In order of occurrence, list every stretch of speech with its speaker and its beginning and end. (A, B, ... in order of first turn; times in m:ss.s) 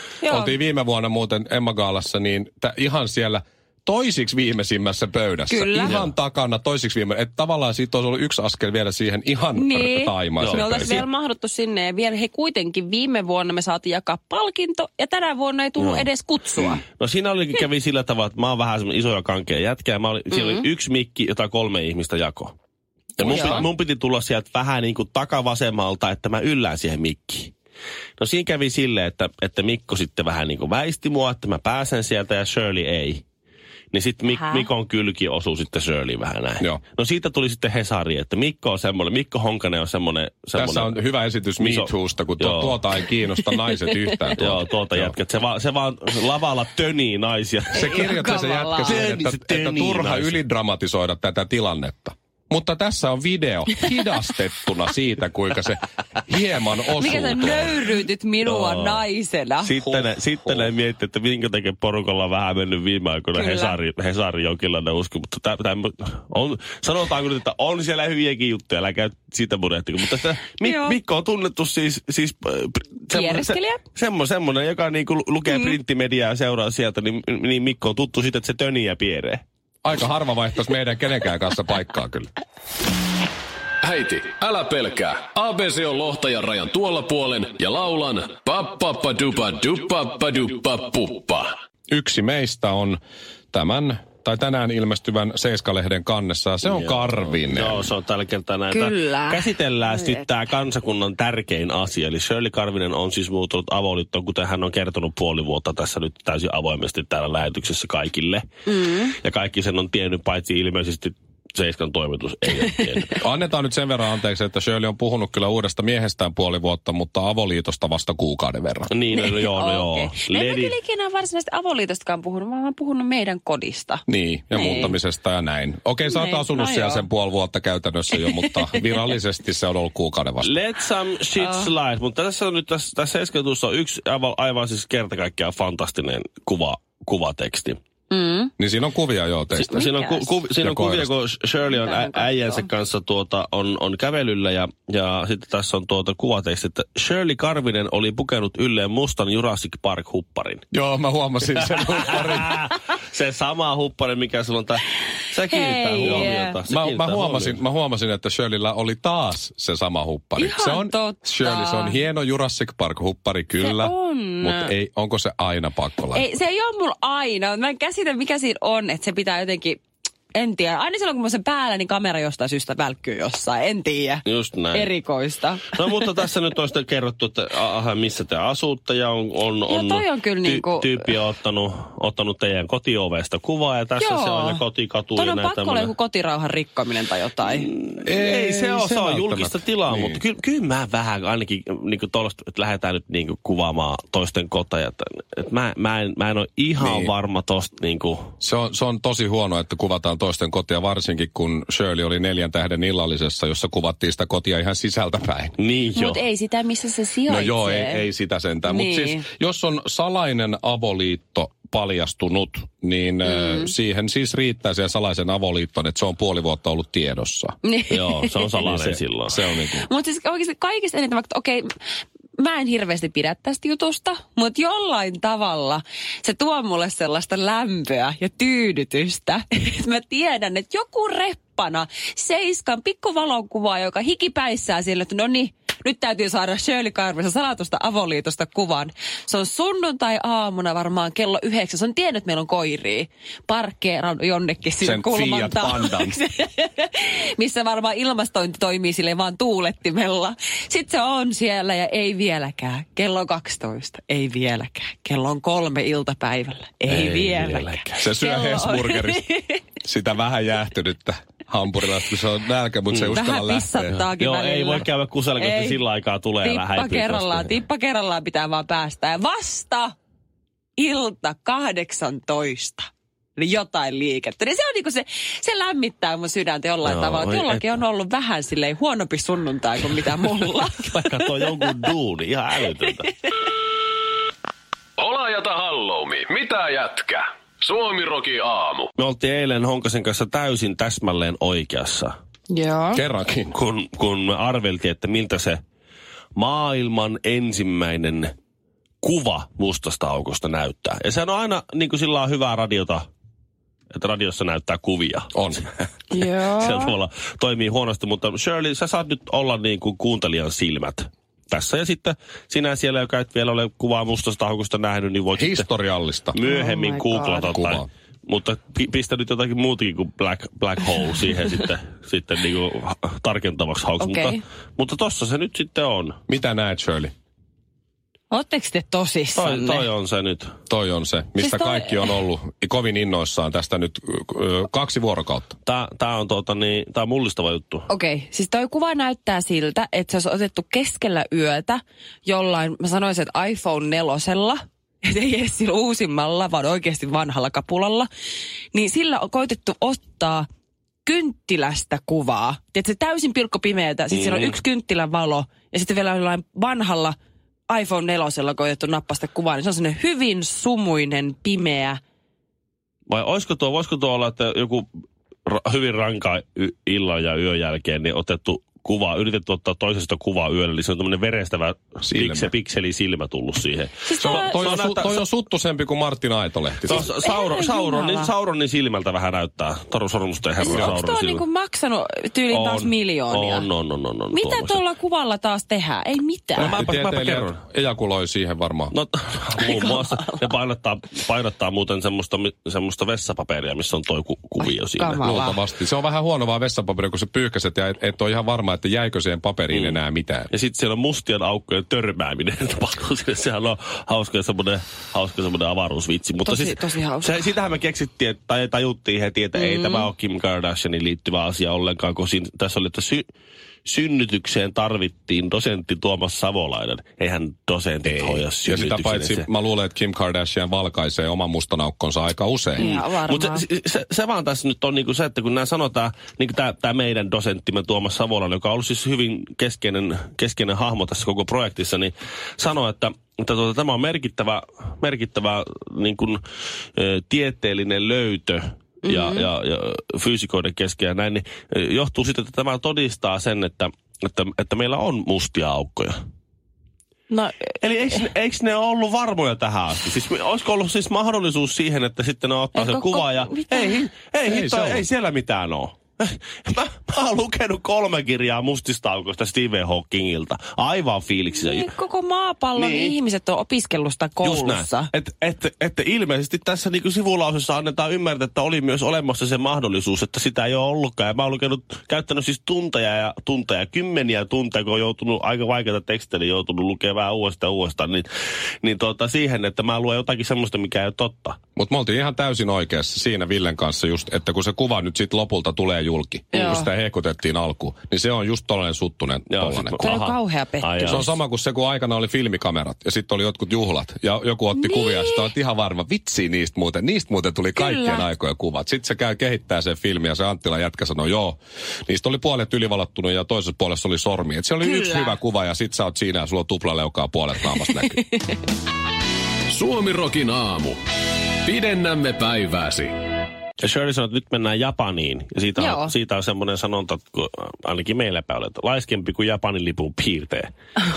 0:00.2-0:00.5 A
0:00.3-0:11.0 B
0:05.5-0:06.0 A
0:05.8-0:06.1 C
0:09.6-0:16.8 A
0:10.4-0:11.0 C
0:15.8-0:22.6 C
0:20.3-0:20.7 A
0:23.2-0:23.6 B
0:23.2-0:27.5 C
0:23.3-0:23.7 A
0:28.2-0:33.2 C
0:33.9-0:41.0 C
0:34.4-0:34.7 A
0:40.6-0:45.2 B
0:41.6-0:43.1 C
0:43.7-0:43.9 A
0:44.4-0:48.3 C
0:47.7-0:57.7 B
0:47.8-0:49.0 A
0:48.8-0:50.4 C
0:57.0-0:59.8 A
0:57.0-0:57.9 C
0:58.4-0:59.1 C
0:59.6-1:19.4 C
0:59.8-1:00.7 B
1:03.3-1:03.8 A
1:10.6-1:11.0 A
1:13.1-1:13.8 A
1:19.8-1:22.3 B
1:23.8-1:31.5 D
1:31.9-1:33.0 B
1:33.5-1:37.9 B
1:36.6-1:53.2 C
1:38.7-1:40.2 A
1:48.7-1:49.2 A
1:53.2-1:58.9 B
1:58.9-2:00.8 C
1:59.2-2:05.0 A
2:04.1-2:10.5 B
2:06.0-2:07.0 A
2:08.2-2:08.8 A
2:10.4-2:17.8 C
2:11.4-2:11.7 A
2:18.1-2:18.5 A
2:18.6-2:19.9 B
2:19.6-2:30.6 C
2:19.8-2:20.2 A
2:20.5-2:21.1 B
2:21.7-2:22.5 A
2:30.7-2:32.7 B
2:31.6-2:37.6 C
2:35.5-2:36.6 A
2:35.7-2:46.2 B
2:40.4-2:42.0 A
2:43.6-2:44.7 A
2:46.1-2:49.8 A
2:50.4-2:56.0 A
2:54.3-2:54.9 C
2:55.7-3:05.9 C
2:59.7-3:01.0 A
3:04.0-3:04.6 A
3:05.2-3:07.7 A
3:07.5-3:18.3 C
3:08.0-3:10.2 B
3:16.8-3:17.1 B
3:18.4-3:25.6 B
3:25.6-3:26.3 C
3:26.0-3:28.1 A
3:27.3-3:37.6 B
3:28.6-3:29.2 A
3:33.2-3:33.7 A
3:37.7-3:38.5 A
3:37.9-3:39.4 C
3:38.6-3:39.9 B
3:39.8-3:41.6 A
3:42.4-4:19.6 A
4:04.8-4:06.2 B
4:16.9-4:18.0 C
4:18.0-4:19.2 B
4:19.8-4:24.0 B
4:22.9-4:23.2 C
4:23.2-4:25.8 A
4:24.2-4:27.6 C
4:26.4-4:30.0 A
4:30.8-4:41.2 A
4:36.8-4:37.7 C
4:40.3-4:43.1 C
4:45.0-4:48.9 D
4:49.0-4:52.1 C
4:52.5-4:53.0 A
4:52.9-4:53.6 B
4:53.5-4:55.6 C
4:56.4-4:58.3 C
4:59.0-5:03.0 C
5:03.9-5:15.7 C
5:05.3-5:05.6 B
5:06.1-5:07.0 A
5:15.4-5:16.4 B
5:16.3-5:26.2 C
5:16.4-5:17.6 A
5:17.4-5:17.9 B
5:24.0-5:24.4 A
5:26.3-5:27.1 B
5:28.3-5:29.9 A
5:29.4-5:30.5 C
5:30.7-5:35.6 B
5:31.4-5:32.2 A
5:35.7-5:37.9 C
5:37.9-5:48.1 A
5:48.7-5:50.5 A
5:51.0-5:57.2 A
5:54.1-5:54.6 C
5:57.7-6:02.0 A
6:03.1-6:04.9 C
6:05.5-6:15.3 C
6:12.0-6:12.5 B
6:14.0-6:14.6 A
6:14.2-6:17.1 B
6:16.8-6:21.4 C
6:17.2-6:18.3 A
6:20.6-6:23.7 A
6:20.7-6:21.0 B
6:22.5-6:24.8 C
6:24.3-6:26.7 A
6:26.6-6:28.9 B
6:26.6-6:27.6 C
6:28.9-6:35.3 C
6:29.6-6:30.5 A
6:34.9-6:35.6 A
6:35.2-6:40.5 B
6:39.7-6:53.2 C
6:46.4-6:47.4 A
6:49.6-6:50.1 A
6:53.8-6:59.5 C
6:58.0-7:02.9 B
7:02.8-7:03.6 A
7:02.8-7:16.4 C
7:17.0-7:26.2 C
7:19.0-7:19.5 A
7:27.3-7:27.7 A
7:27.8-7:41.9 C
7:32.8-7:34.0 A
7:34.4-7:35.1 B
7:41.6-7:45.1 A
7:42.8-7:43.2 C
7:44.4-7:58.3 C
7:58.8-8:01.6 C
8:01.8-8:10.1 B
8:06.6-8:06.9 A
8:09.5-8:11.3 C
8:10.0-8:11.2 A
8:11.0-8:28.2 B
8:14.8-8:15.5 A
8:17.8-8:18.2 A
8:24.8-8:25.3 A
8:29.7-8:31.0 D
8:31.6-8:33.2 D
8:33.8-8:40.7 C
8:35.8-8:36.1 A